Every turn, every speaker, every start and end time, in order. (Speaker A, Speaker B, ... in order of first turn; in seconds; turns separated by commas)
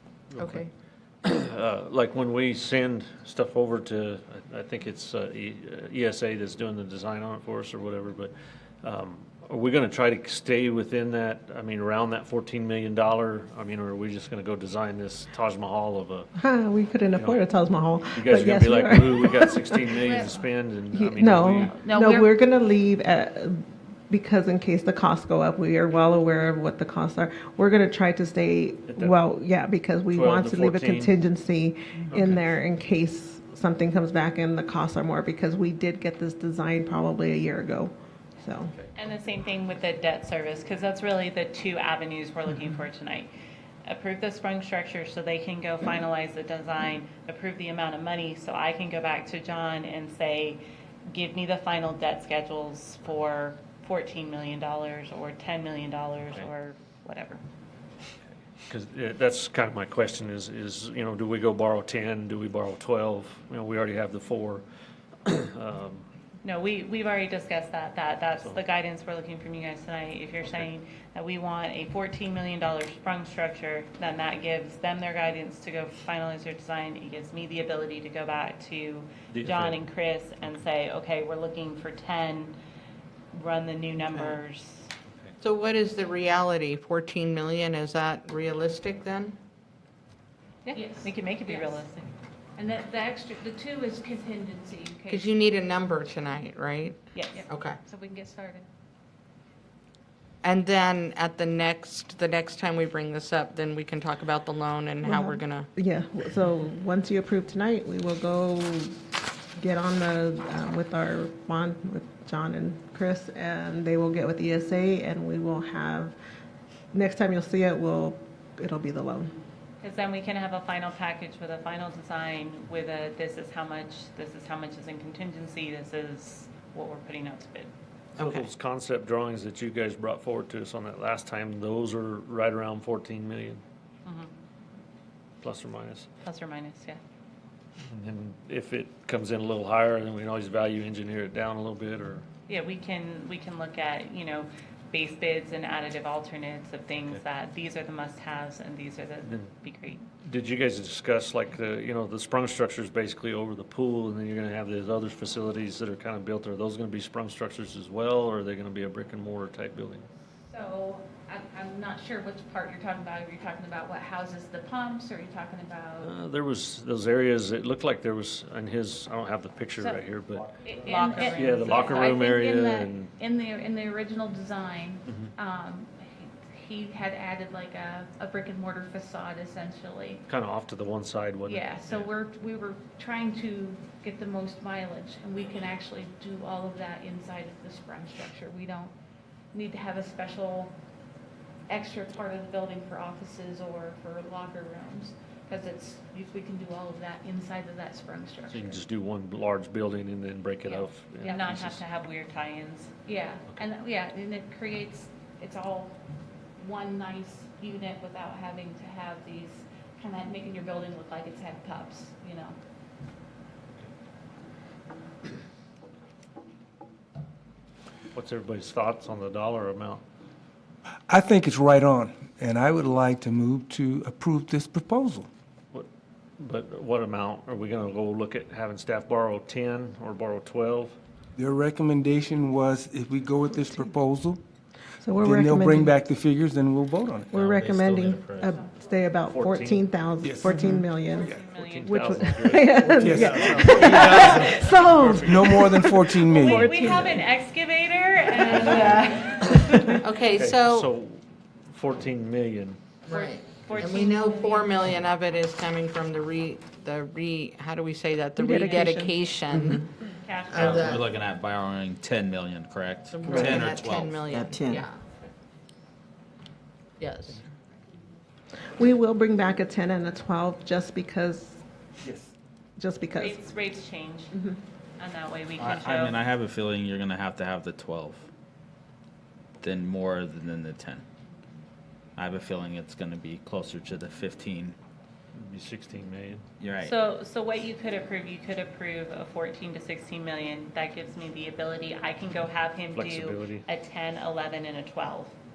Speaker A: 0.3-0.6, Speaker B: 0.4-0.7, Speaker A: 1.2-16.3, Speaker C: 16.4-20.0, Speaker A: 17.1-17.4, Speaker A: 18.1-21.7, Speaker D: 20.0-20.4, Speaker C: 20.9-38.7, Speaker D: 21.6-22.3, Speaker A: 28.9-29.2, Speaker A: 30.1-31.1, Speaker A: 32.1-32.6, Speaker E: 39.0-43.3, Speaker E: 43.9-57.4, Speaker A: 58.7-64.6, Speaker A: 65.2-66.1, Speaker E: 66.4-82.5, Speaker A: 70.4-70.7, Speaker A: 79.3-79.8, Speaker E: 83.3-84.9, Speaker B: 85.4-89.4, Speaker D: 90.7-91.9, Speaker E: 91.0-92.1, Speaker D: 92.6-95.4, Speaker B: 95.1-97.8, Speaker E: 97.1-97.5, Speaker D: 97.3-98.7, Speaker B: 100.4-105.7, Speaker C: 105.0-109.0, Speaker C: 109.6-116.2, Speaker C: 116.9-119.3, Speaker E: 119.8-127.7, Speaker B: 128.2-128.5, Speaker A: 128.2-133.6, Speaker E: 134.1-134.3, Speaker A: 135.4-136.1, Speaker E: 136.2-137.0, Speaker A: 137.9-142.2, Speaker E: 142.5-150.0, Speaker A: 149.2-149.5, Speaker A: 150.2-160.1, Speaker D: 160.5-166.1, Speaker A: 166.0-173.1, Speaker D: 169.8-180.2, Speaker E: 170.8-172.2, Speaker A: 175.1-175.3, Speaker A: 180.3-182.1, Speaker D: 181.4-188.9, Speaker D: 189.5-190.7, Speaker D: 191.7-198.8, Speaker A: 198.5-201.8, Speaker D: 200.6-201.5, Speaker E: 201.2-203.0, Speaker D: 203.1-206.0, Speaker D: 206.6-212.6, Speaker A: 218.1-220.0, Speaker F: 221.1-225.3, Speaker A: 226.4-231.0, Speaker F: 231.4-234.4, Speaker C: 233.5-233.9, Speaker C: 235.0-236.0, Speaker F: 235.1-237.3, Speaker C: 237.3-247.3, Speaker G: 237.3-238.5, Speaker A: 239.3-239.9, Speaker F: 240.2-240.8, Speaker A: 240.6-245.6, Speaker E: 241.0-242.8, Speaker F: 243.0-243.4, Speaker E: 243.4-244.6, Speaker F: 245.2-246.7, Speaker E: 246.3-250.1, Speaker D: 248.3-249.2, Speaker B: 250.0-250.9, Speaker A: 250.3-252.8, Speaker B: 253.1-259.9, Speaker D: 253.1-254.8, Speaker E: 253.6-254.7, Speaker C: 258.4-259.8, Speaker E: 258.6-259.1, Speaker E: 260.2-261.0, Speaker B: 260.5-261.1, Speaker G: 260.6-264.4, Speaker B: 263.1-265.0, Speaker C: 263.3-263.6, Speaker C: 264.3-264.8, Speaker B: 267.0-267.4, Speaker C: 268.8-271.6, Speaker C: 272.8-273.5, Speaker E: 273.1-274.4, Speaker E: 275.0-276.2, Speaker G: 275.6-278.3, Speaker G: 279.6-281.0, Speaker G: 282.2-284.8, Speaker A: 285.3-286.4, Speaker G: 286.6-286.9, Speaker E: 286.8-295.3, Speaker A: 292.9-293.7